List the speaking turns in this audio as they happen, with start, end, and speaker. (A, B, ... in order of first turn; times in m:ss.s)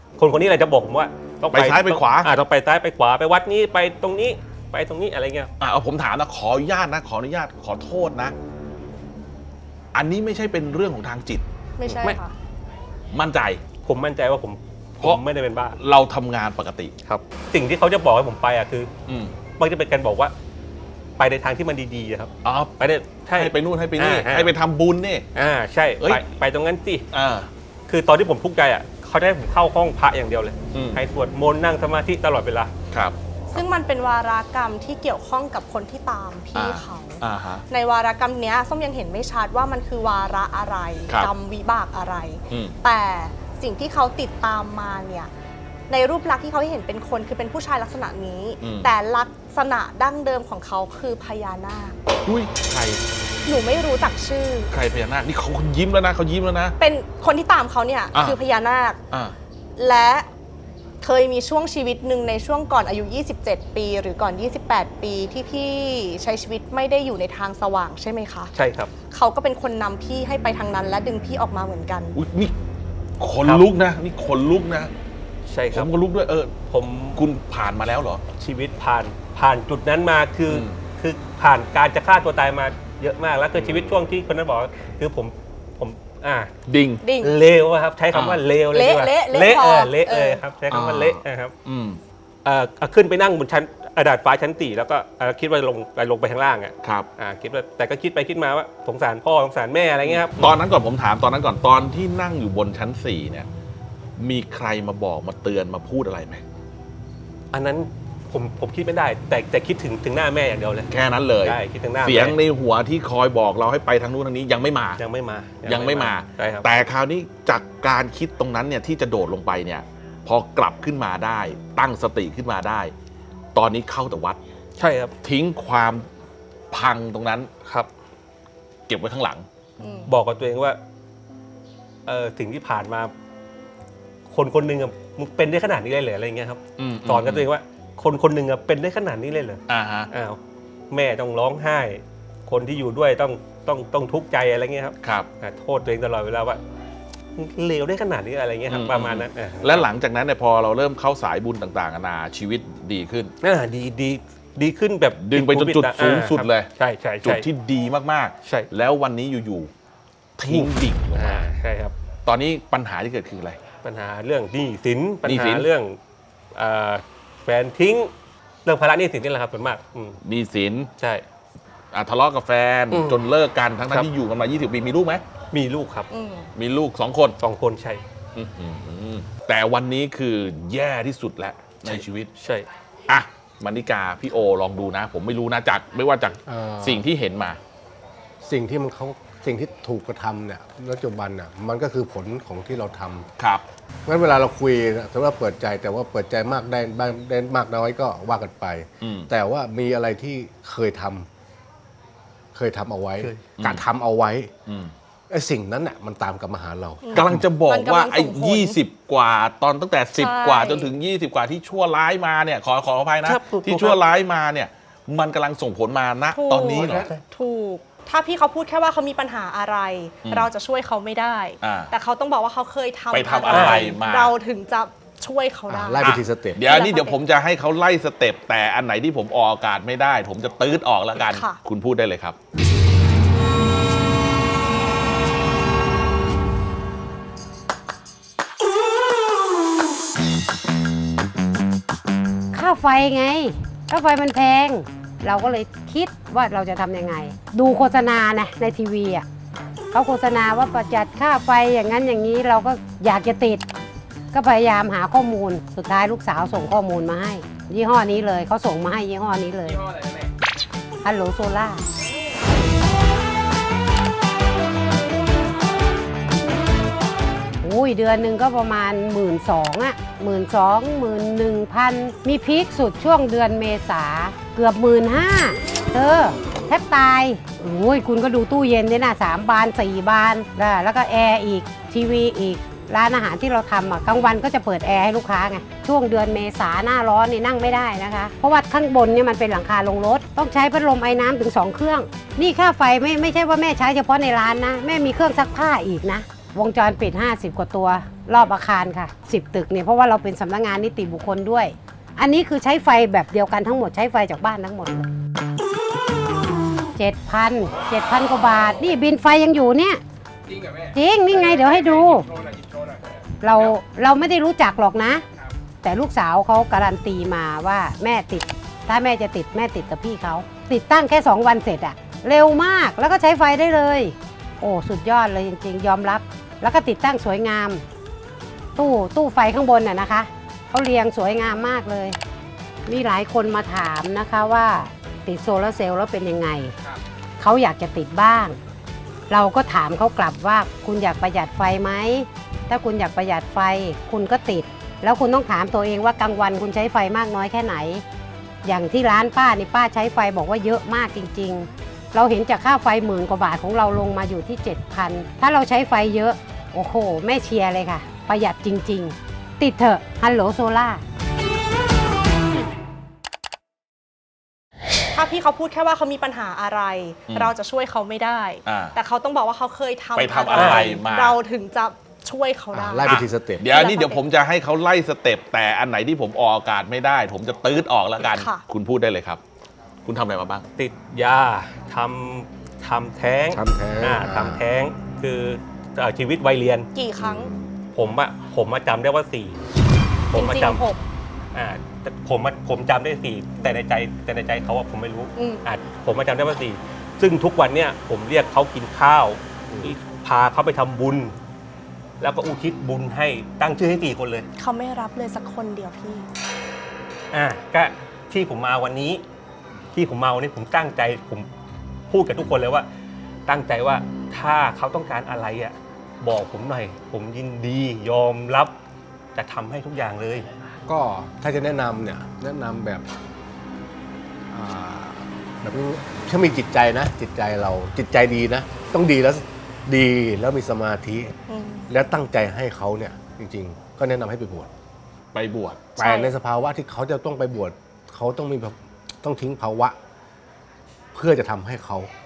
0:00.2-0:05.5 A
0:01.5-0:02.3 B
0:05.6-0:08.4 B
0:09.9-0:11.4 B
0:11.8-0:12.4 C
0:13.1-0:13.6 B
0:13.8-0:15.8 A
0:15.8-0:16.9 B
0:17.1-0:18.9 A
0:19.1-0:19.4 B
0:19.6-0:20.3 A
0:21.2-0:24.5 A
0:22.4-0:22.8 B
0:23.3-0:25.3 B
0:25.4-0:27.1 A
0:27.1-0:27.5 B
0:27.9-0:32.7 A
0:30.7-0:31.0 B
0:32.9-0:33.2 B
0:33.5-0:45.3 C
0:36.6-0:37.6 B
0:42.5-0:42.8 B
0:45.9-0:52.0 C
0:48.6-0:48.9 B
0:52.2-0:53.0 B
0:53.5-0:54.7 C
0:54.7-0:56.8 B
0:56.8-0:59.0 C
0:58.1-0:58.4 B
0:59.1-0:59.4 B
0:59.8-1:00.3 C
1:01.0-1:08.5 C
1:08.6-1:08.9 A
1:09.1-1:12.2 C
1:12.1-1:12.6 B
1:13.2-1:14.9 B
1:15.5-1:15.9 A
1:15.7-1:16.6 B
1:16.7-1:17.2 A
1:17.1-1:18.2 B
1:18.4-1:26.5 A
1:20.5-1:20.8 B
1:23.6-1:23.9 B
1:26.7-1:27.0 B
1:27.0-1:27.4 C
1:27.2-1:31.5 A
1:28.1-1:28.4 B
1:28.7-1:30.4 C
1:30.7-1:32.0 B
1:32.4-1:40.6 A
1:36.8-1:37.1 B
1:40.0-1:43.5 B
1:44.2-1:46.4 B
1:47.5-1:50.9 A
1:50.9-1:55.0 B
1:51.4-1:52.4 A
1:55.0-1:56.7 A
1:55.7-2:02.9 B
2:03.6-2:04.4 B
2:04.8-2:05.1 A
2:05.2-2:06.1 B
2:06.7-2:07.5 B
2:08.9-2:09.5 B
2:09.8-2:10.1 C
2:10.1-2:10.8 A
2:12.1-2:13.1 A
2:14.3-2:20.4 A
2:16.8-2:17.5 B
2:19.7-2:20.1 B
2:20.9-2:26.6 A
2:25.0-2:25.3 B
2:27.4-2:29.9 A
2:28.7-2:33.3 B
2:33.4-2:37.5 A
2:35.2-2:36.7 B
2:37.2-2:39.7 B
2:40.4-2:41.5 B
2:40.5-2:41.9 A
2:42.3-2:43.6 B
2:43.8-2:46.0 A
2:45.2-2:45.7 B
2:46.6-2:48.1 A
2:48.6-2:50.2 A
2:50.2-2:50.9 B
2:51.0-2:51.2 A
2:51.9-2:55.2 B
2:52.9-2:53.2 A
2:55.5-2:56.1 A
2:56.1-2:56.5 C
2:56.6-2:57.4 B
2:57.4-2:58.0 A
2:58.4-3:02.3 B
3:01.9-3:02.7 A
3:03.1-3:07.6 B
3:06.5-3:07.0 D
3:08.4-3:13.3 D
3:13.4-3:13.6 B
3:14.1-3:21.3 D
3:19.0-3:19.3 B
3:22.5-3:24.5 D
3:23.6-3:23.8 B
3:24.7-3:24.9 B
3:25.3-3:27.4 D
3:27.0-3:28.8 C
3:27.1-3:37.1 B
3:30.2-3:30.9 C
3:33.3-3:34.0 A
3:36.3-3:47.2 C
3:36.8-3:37.1 D
3:41.6-3:41.9 B
3:43.1-3:44.3 B
3:43.5-3:44.0 A
3:45.7-3:46.6 D
3:46.0-3:52.4 B
3:51.2-3:51.6 C
4:02.5-4:09.2 E
4:09.9-4:13.6 E
4:14.3-4:20.0 E
4:21.0-4:21.8 E
4:27.6-5:05.1 E
5:07.0-5:10.0 E
5:10.6-5:12.6 E
5:13.4-5:15.2 E
5:15.8-5:27.8 E
5:28.8-5:32.2 E
5:32.9-5:36.8 E
5:37.4-5:38.6 E
5:39.3-5:48.0 E
5:48.6-6:01.0 E
6:05.1-6:14.2 C
6:08.7-6:09.0 B
6:10.2-6:11.4 B
6:10.5-6:11.0 A
6:12.7-6:13.7 D
6:13.1-6:19.4 B
6:18.3-6:18.6 C
6:20.0-6:20.6 B
6:20.8-6:26.9 A
6:23.5-6:24.6 D
6:26.9-6:27.5 C
6:27.2-6:27.7 D
6:28.0-6:29.6 A
6:30.3-6:30.9 A
6:30.3-6:31.0 C
6:31.5-6:41.4 A
6:35.4-6:35.6 C
6:39.7-6:40.0 D
6:42.2-6:44.5 A
6:44.6-6:46.3 C
6:47.3-6:49.2 A
6:50.0-6:51.5 A
6:52.1-6:52.9 A
6:53.5-6:58.7 A
6:59.4-7:00.5 A
7:00.9-7:03.0 D
7:04.5-7:11.3 D
7:11.5-7:11.9 C
7:11.9-7:14.7 D
7:15.3-7:16.0 B
7:16.0-7:16.3 C
7:16.0-7:20.0 D
7:21.1-7:22.1 D